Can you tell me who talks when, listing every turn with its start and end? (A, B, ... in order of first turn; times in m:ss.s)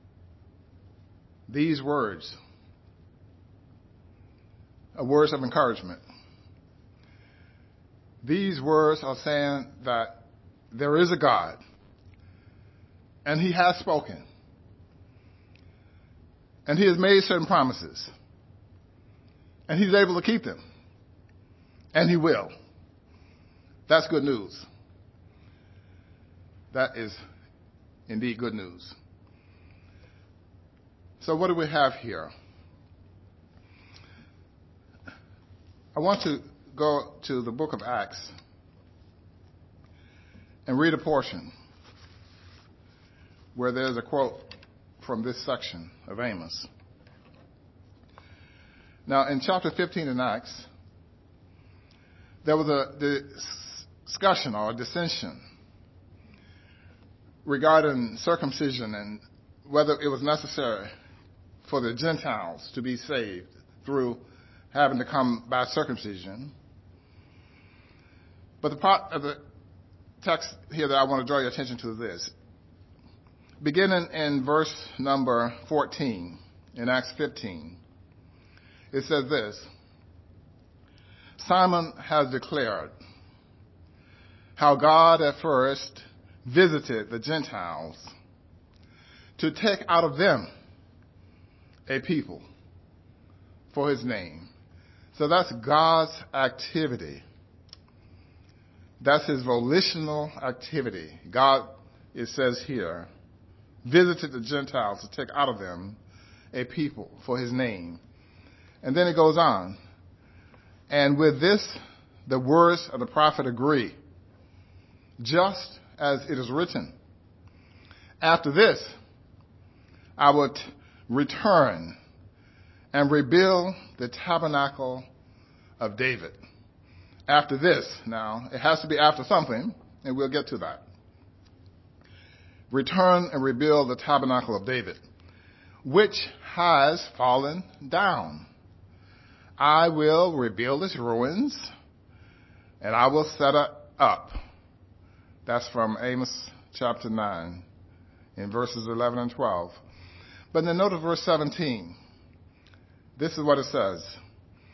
0:01.5-0:02.4 A
0:05.0-0:06.0 A
0:08.2-0:10.2 A
0:10.7-0:11.6 A
0:13.2-0:14.2 A
0:16.7-0:18.1 A
0:19.7-0:20.6 A
0:21.9-0:22.5 A
0:23.9-0:24.7 A
0:26.7-0:27.2 A
0:28.1-0:29.0 A
0:31.2-0:32.3 A
0:36.0-0:38.3 A
0:40.7-0:41.5 A
0:43.6-0:44.5 A
0:45.0-0:46.7 A
0:49.1-0:50.7 A
0:52.4-0:55.4 A
0:57.4-1:00.9 A
1:01.6-1:06.5 A
1:08.6-1:09.4 A
1:10.2-1:12.3 A
1:13.6-1:17.8 A
1:18.9-1:19.7 A
1:21.4-1:22.9 A
1:24.6-1:28.1 A
1:29.4-1:30.5 A
1:31.9-1:32.4 A
1:33.7-1:34.5 A
1:35.1-1:37.2 A
1:39.0-1:43.1 A
1:43.8-1:46.0 A
1:46.5-1:48.0 A
1:48.8-1:49.8 A
1:50.9-1:54.0 A
1:55.2-1:56.9 A
1:58.2-1:58.9 A
2:00.2-2:02.0 A
2:02.9-2:05.1 A
2:05.8-2:06.4 A
2:07.3-2:10.8 A
2:12.7-2:15.0 A
2:15.8-2:18.5 A
2:19.6-2:21.7 A
2:22.8-2:24.4 A
2:25.5-2:27.6 A
2:28.4-2:29.8 A
2:30.5-2:32.0 A
2:33.2-2:34.2 A